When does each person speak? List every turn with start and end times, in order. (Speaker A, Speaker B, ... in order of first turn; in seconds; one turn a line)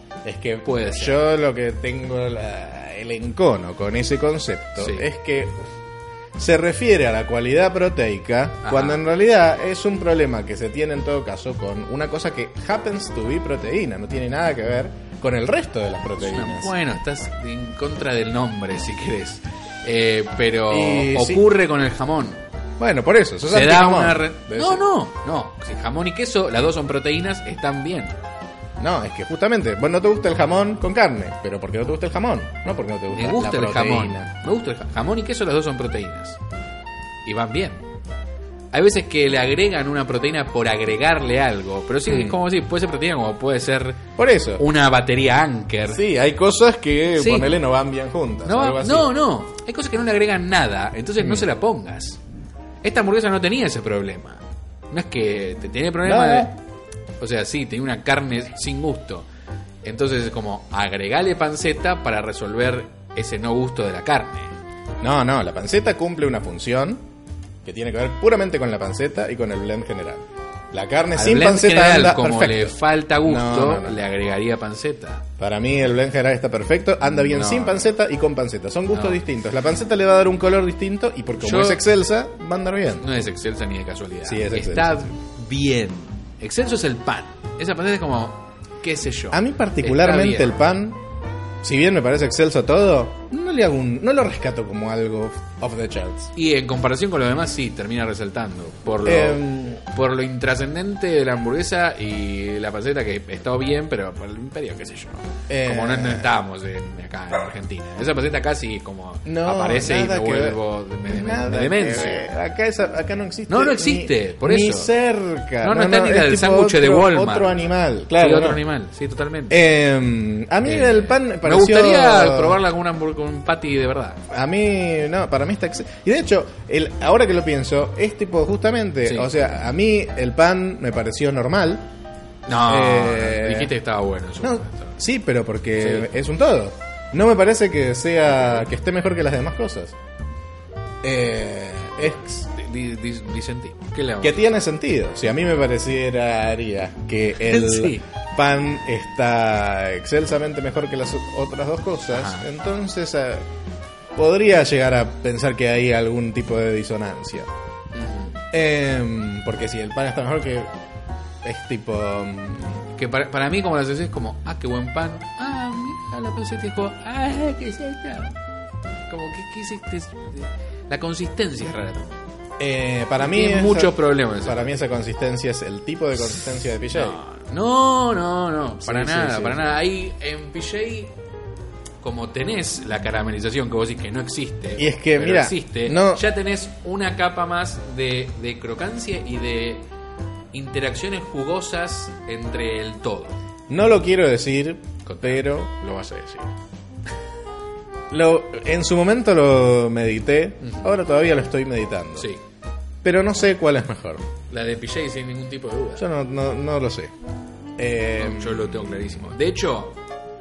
Speaker A: 0.2-5.6
Speaker B: 0.6-1.2
Speaker B: 4.8-5.0
Speaker A: 6.4-16.7
Speaker B: 8.6-9.0
Speaker B: 16.2-22.4
Speaker A: 20.7-21.5
Speaker A: 22.8-24.8
Speaker B: 23.5-28.2
Speaker A: 28.8-34.3
Speaker B: 33.1-36.4
Speaker B: 37.3-37.8
Speaker B: 38.7-46.0
Speaker A: 42.1-42.4
Speaker A: 44.2-44.6
Speaker A: 45.9-49.1
Speaker B: 47.2-47.6
Speaker B: 48.5-52.2
Speaker A: 51.2-51.5
Speaker B: 52.8-56.5
Speaker A: 56.0-56.5
Speaker B: 57.2-59.3
Speaker B: 59.8-64.5
Speaker A: 65.0-67.0
Speaker A: 67.6-74.0
Speaker B: 71.2-75.3
Speaker A: 75.4-83.1
Speaker B: 77.3-77.9
Speaker B: 78.9-79.2
Speaker B: 81.4-81.8
Speaker B: 83.0-90.6
Speaker A: 84.2-85.0
Speaker A: 89.3-91.0
Speaker A: 91.6-96.3
Speaker B: 96.3-112.3
Speaker A: 99.0-99.8
Speaker A: 105.5-106.3
Speaker A: 109.2-118.6
Speaker B: 113.5-114.9
Speaker B: 115.6-117.5
Speaker B: 118.2-119.6
Speaker A: 119.5-122.6
Speaker B: 120.7-124.2
Speaker A: 124.3-131.9
Speaker B: 132.5-135.0
Speaker A: 132.5-133.7
Speaker A: 134.4-139.9
Speaker B: 135.8-136.1
Speaker A: 141.0-142.5
Speaker B: 142.4-144.4
Speaker A: 144.2-153.4
Speaker B: 147.4-148.0
Speaker B: 152.1-152.5
Speaker A: 154.2-157.5
Speaker B: 157.9-158.4
Speaker A: 158.5-160.7
Speaker A: 161.4-162.8
Speaker B: 163.0-168.4
Speaker B: 169.1-172.2
Speaker A: 172.6-177.2
Speaker B: 173.2-174.7
Speaker B: 176.9-181.1
Speaker A: 178.8-179.7
Speaker B: 182.0-189.8
Speaker A: 184.8-186.2
Speaker B: 190.5-193.4
Speaker A: 193.7-195.7
Speaker B: 195.1-196.5
Speaker A: 198.1-202.3
Speaker B: 200.6-200.9
Speaker A: 203.0-204.2
Speaker B: 204.5-206.1
Speaker A: 206.0-207.1
Speaker A: 207.8-209.3
Speaker B: 208.2-210.0